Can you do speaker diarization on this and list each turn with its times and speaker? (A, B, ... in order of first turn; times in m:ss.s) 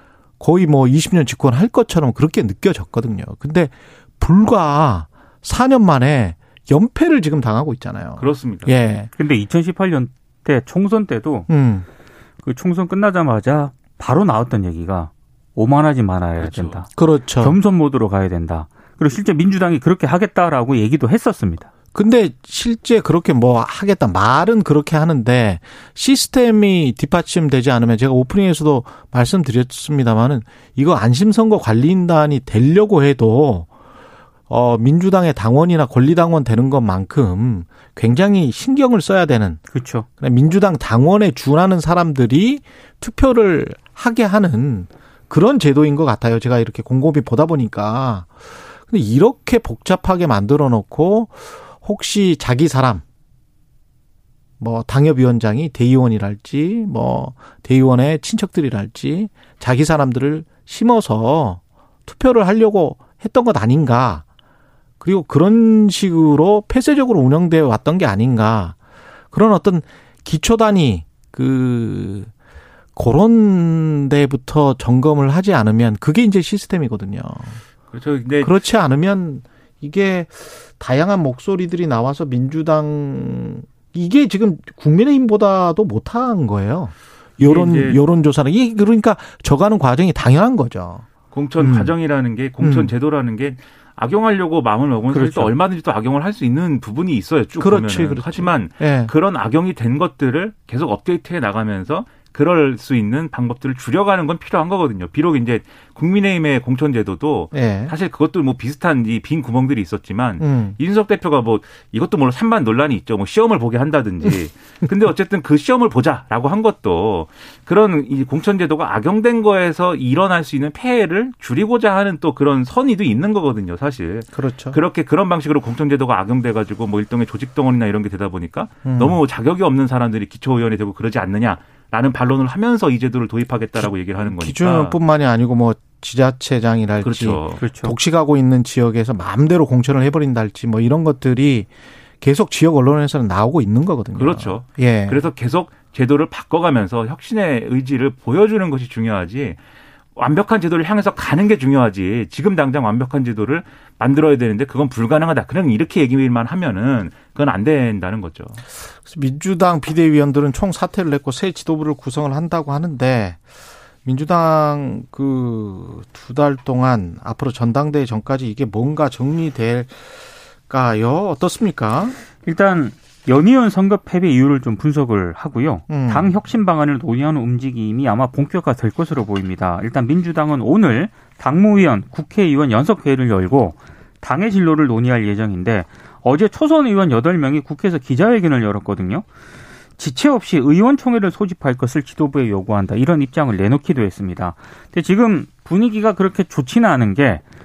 0:00.4-0:09.1 A
0:08.2-0:08.7 B
0:09.2-0:11.5 C
0:11.5-0:11.8 A
0:12.4-0:16.9 C
0:16.4-0:16.8 B
0:17.0-0:17.6 A
0:17.4-0:21.7 C
0:21.9-0:33.7 A
0:34.5-0:39.6 A
0:39.7-0:40.0 C
0:40.2-0:48.3 A
0:48.9-0:53.0 A
0:54.6-1:04.2 A
1:05.0-1:08.8 A
1:09.3-1:12.3 A
1:13.0-1:17.6 A
1:17.9-1:18.5 B
1:18.4-1:31.0 A
1:27.4-1:28.0 B
1:31.3-2:15.0 B
1:31.6-1:31.9 A
1:32.6-1:32.9 A
1:35.1-1:35.5 C
1:37.6-1:39.1 A
1:47.5-1:47.9 A
1:50.4-1:50.8 A
2:04.3-2:04.8 A
2:08.8-2:09.2 A
2:13.8-2:21.7 A
2:17.0-2:17.6 B
2:17.6-2:17.9 C
2:22.2-2:25.3 A
2:24.1-2:29.6 B
2:30.2-2:38.6 B
2:39.0-2:43.4 A
2:44.0-2:52.2 A
2:52.4-3:09.2 C
2:55.9-2:56.4 A
3:10.0-3:17.4 C